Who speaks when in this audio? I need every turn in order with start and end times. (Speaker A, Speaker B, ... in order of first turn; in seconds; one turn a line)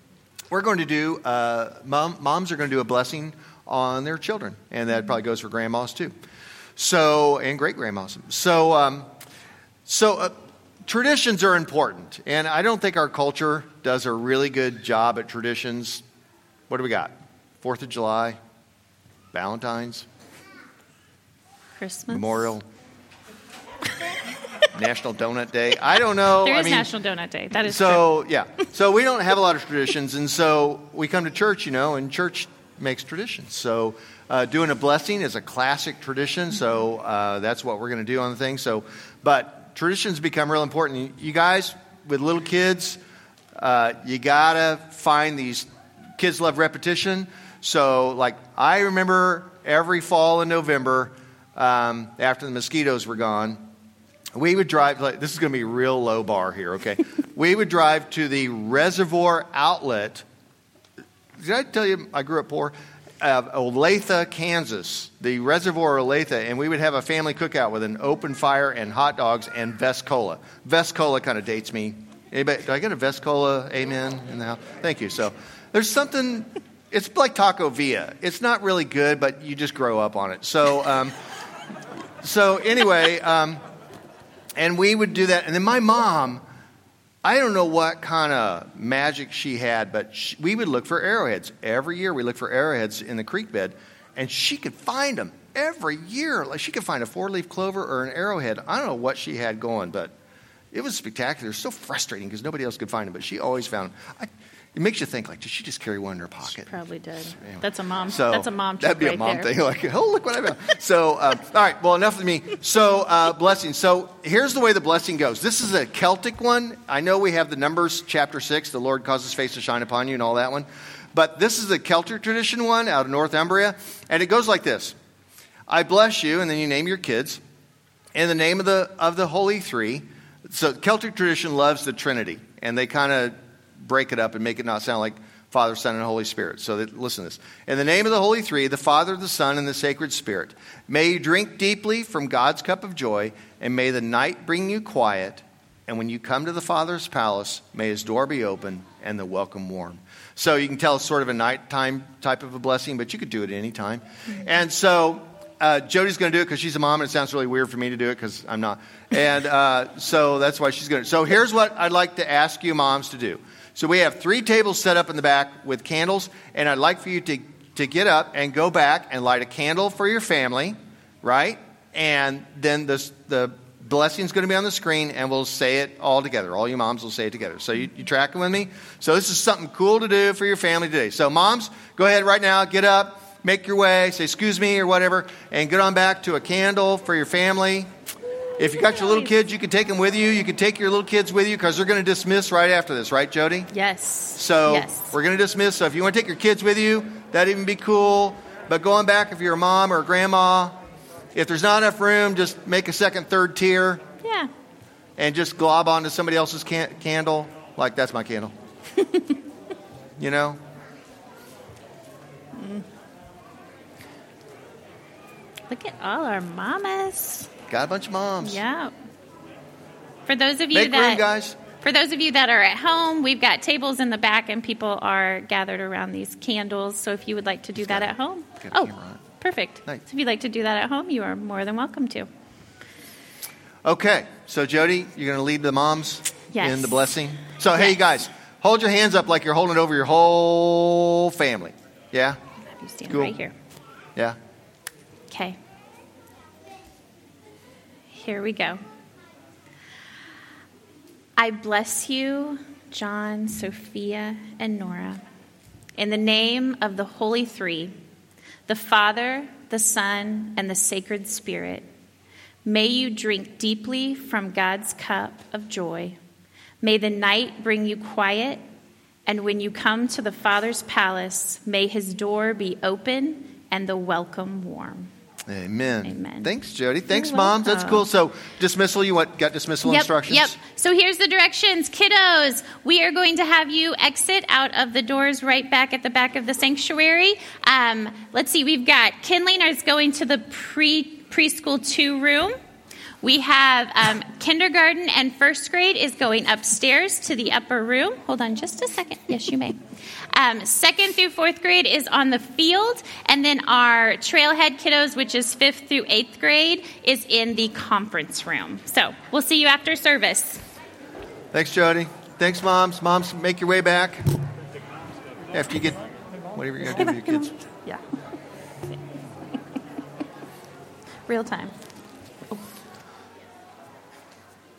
Speaker A: 0.5-6.1
Speaker A: 6.8-9.1
Speaker A: 9.8-16.0
Speaker A: 16.7-18.4
Speaker A: 19.3-20.1
Speaker B: 21.8-22.5
Speaker A: 22.1-22.6
Speaker A: 24.7-26.9
Speaker B: 26.4-28.0
Speaker A: 27.6-43.0
Speaker A: 43.6-53.6
Speaker A: 54.3-60.2
Speaker A: 61.4-81.2
Speaker A: 82.2-83.6
Speaker A: 84.6-86.4
Speaker A: 87.2-100.1
Speaker A: 100.7-106.7
Speaker B: 106.6-109.5
Speaker A: 107.3-124.9
Speaker A: 125.7-127.4
Speaker A: 128.2-187.9
Speaker A: 188.6-193.7
Speaker B: 188.9-189.3
Speaker B: 193.7-195.1
Speaker A: 194.3-200.8
Speaker A: 201.3-204.0
Speaker B: 204.2-204.5
Speaker A: 205.2-208.5
Speaker A: 210.2-210.6
Speaker B: 212.5-212.8
Speaker B: 215.7-217.5
Speaker A: 217.7-218.6
Speaker B: 218.4-218.9
Speaker B: 220.2-221.2
Speaker A: 220.7-221.6
Speaker B: 221.8-232.3
Speaker A: 227.8-229.2
Speaker A: 233.8-242.4
Speaker B: 236.5-237.1
Speaker B: 242.7-243.5
Speaker A: 243.1-243.4
Speaker B: 245.3-245.6
Speaker B: 248.1-248.8
Speaker B: 251.4-255.2
Speaker B: 255.9-257.9
Speaker B: 258.7-261.9
Speaker B: 262.6-266.2
Speaker B: 266.8-268.6
Speaker B: 269.2-275.1
Speaker A: 275.5-280.6
Speaker B: 276.1-276.5
Speaker B: 277.1-278.1
Speaker B: 279.8-292.6
Speaker B: 293.2-299.8
Speaker B: 300.3-310.6
Speaker A: 311.5-314.2
Speaker A: 315.5-316.0
Speaker A: 316.5-317.6
Speaker B: 316.9-318.0
Speaker B: 321.3-321.8